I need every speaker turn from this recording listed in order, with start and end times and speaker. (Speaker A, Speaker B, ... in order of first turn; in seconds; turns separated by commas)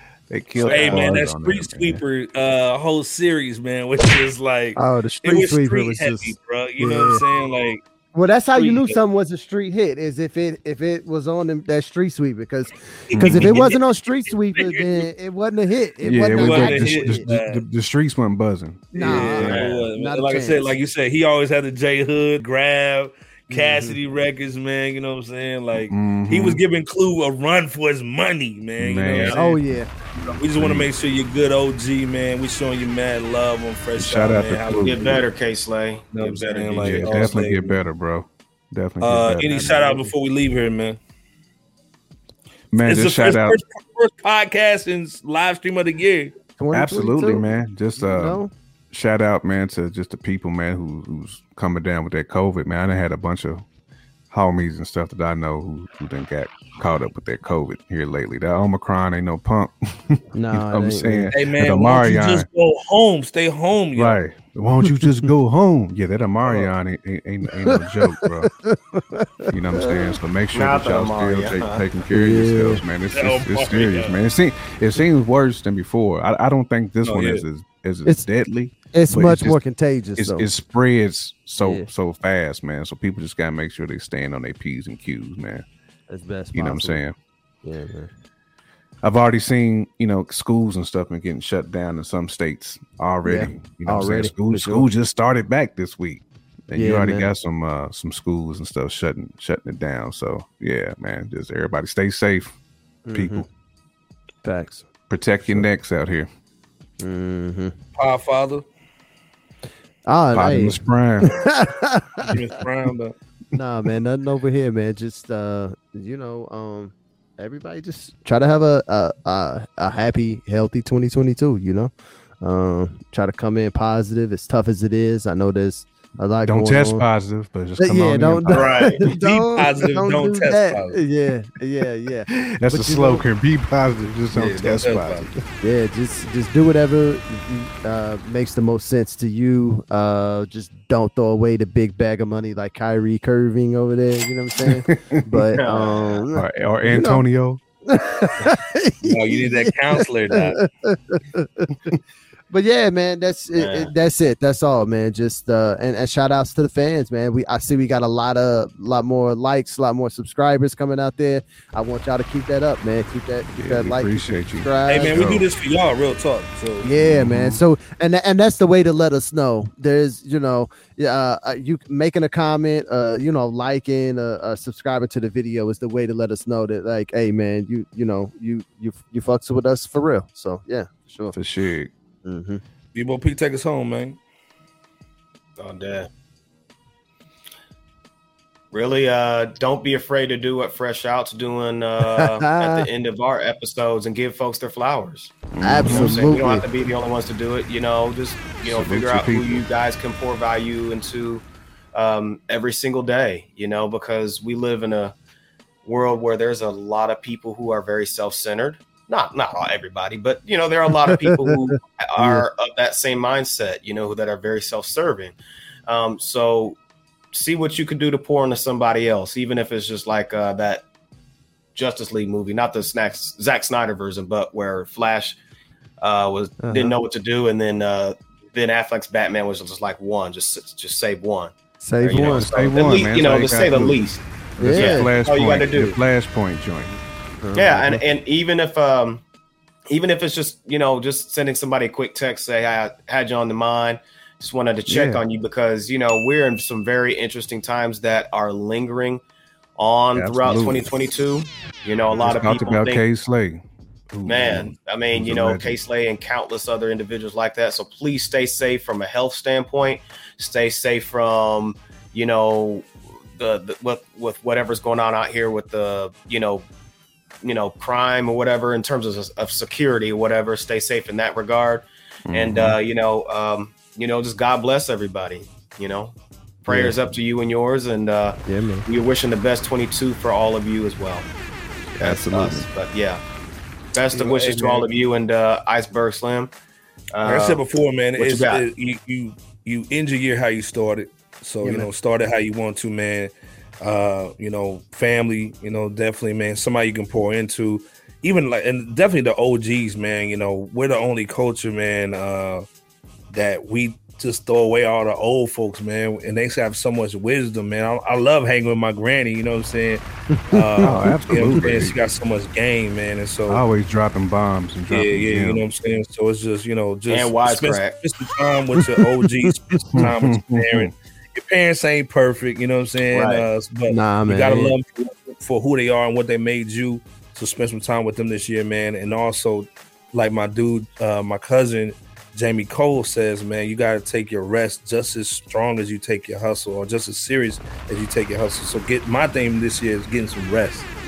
Speaker A: 0.3-2.0, Speaker B: 0.5-1.1, Speaker C: 0.7-7.8, Speaker D: 4.8-7.2, Speaker D: 8.1-17.2, Speaker C: 8.6-9.0, Speaker C: 13.1-15.1, Speaker A: 13.2-13.6, Speaker A: 16.0-19.6, Speaker C: 16.3-17.6, Speaker D: 18.9-20.8, Speaker C: 18.9-29.4, Speaker B: 19.4-19.8, Speaker D: 23.5-24.0, Speaker A: 25.7-26.6, Speaker A: 28.8-29.6, Speaker B: 29.1-29.5, Speaker D: 29.3-29.9, Speaker A: 30.1-30.9, Speaker C: 30.4-35.2, Speaker A: 34.0-35.2, Speaker B: 34.8-37.4, Speaker C: 36.1-37.7, Speaker A: 36.8-40.0, Speaker C: 39.0-41.0, Speaker A: 42.7-43.6, Speaker C: 42.8-46.3, Speaker D: 46.6-47.4, Speaker A: 46.7-53.6, Speaker D: 48.0-48.5, Speaker A: 54.3-62.5, Speaker D: 60.3-61.3, Speaker C: 61.3-64.2, Speaker A: 63.9-68.5, Speaker D: 64.8-65.1, Speaker D: 67.6-70.2, Speaker A: 69.5-79.6, Speaker B: 70.5-71.8, Speaker D: 72.1-72.8, Speaker C: 73.1-74.2, Speaker C: 77.0-77.4, Speaker D: 78.9-80.5, Speaker A: 80.2-85.6, Speaker D: 81.6-81.9, Speaker D: 86.1-87.0, Speaker A: 86.5-87.1, Speaker D: 87.6-88.1, Speaker A: 89.0-102.5, Speaker D: 93.2-94.9, Speaker D: 96.7-97.3, Speaker D: 103.0-103.5, Speaker A: 103.1-103.5, Speaker D: 104.4-104.9, Speaker A: 105.1-106.3, Speaker D: 105.4-105.7, Speaker D: 107.0-107.7, Speaker C: 108.0-108.6, Speaker D: 110.0-112.4, Speaker A: 110.3-111.4, Speaker C: 112.2-113.1, Speaker D: 113.5-127.0, Speaker A: 113.6-113.9, Speaker A: 126.5-128.9, Speaker D: 127.8-133.2, Speaker B: 128.5-129.0, Speaker C: 129.0-131.0, Speaker A: 132.3-135.4, Speaker C: 134.3-135.3, Speaker D: 135.6-147.2, Speaker A: 144.6-145.4, Speaker B: 145.5-146.2, Speaker A: 146.3-147.6, Speaker D: 147.8-152.0, Speaker C: 149.0-150.6, Speaker D: 152.5-165.3, Speaker B: 153.6-153.9, Speaker A: 163.6-165.4, Speaker C: 164.9-166.9, Speaker D: 166.8-181.3, Speaker A: 167.0-167.6, Speaker A: 181.3-181.9, Speaker D: 182.2-182.6, Speaker C: 182.9-184.2, Speaker B: 185.6-186.1, Speaker B: 188.7-205.2, Speaker D: 192.0-192.8, Speaker A: 195.5-196.3, Speaker D: 195.6-196.6, Speaker A: 198.6-199.6, Speaker B: 205.8-215.3, Speaker D: 211.1-211.6, Speaker D: 212.2-212.4, Speaker B: 215.9-216.8, Speaker B: 217.3-220.8, Speaker B: 221.7-225.4, Speaker B: 226.0-236.0, Speaker D: 226.6-226.9, Speaker D: 231.8-232.5, Speaker A: 232.1-234.0, Speaker A: 234.6-237.0, Speaker D: 234.6-235.1, Speaker D: 237.4-238.0, Speaker B: 237.5-239.2, Speaker B: 239.9-249.2, Speaker A: 244.9-245.2, Speaker B: 249.8-253.0, Speaker A: 250.1-250.9, Speaker A: 252.2-255.8, Speaker B: 254.2-266.7, Speaker B: 267.4-281.3, Speaker A: 272.3-272.8, Speaker D: 276.7-276.9, Speaker D: 278.5-278.9, Speaker A: 281.9-282.7, Speaker B: 282.0-283.2, Speaker B: 283.9-286.5, Speaker C: 284.1-284.9, Speaker B: 287.1-287.6, Speaker C: 287.2-302.6, Speaker B: 288.1-288.6, Speaker D: 291.6-291.9, Speaker C: 303.3-313.6, Speaker D: 310.3-311.1, Speaker A: 310.8-311.9, Speaker A: 313.5-315.6, Speaker C: 314.9-340.9, Speaker B: 317.1-317.9, Speaker D: 319.5-320.1, Speaker A: 319.9-320.9, Speaker B: 323.1-323.5, Speaker D: 323.9-324.7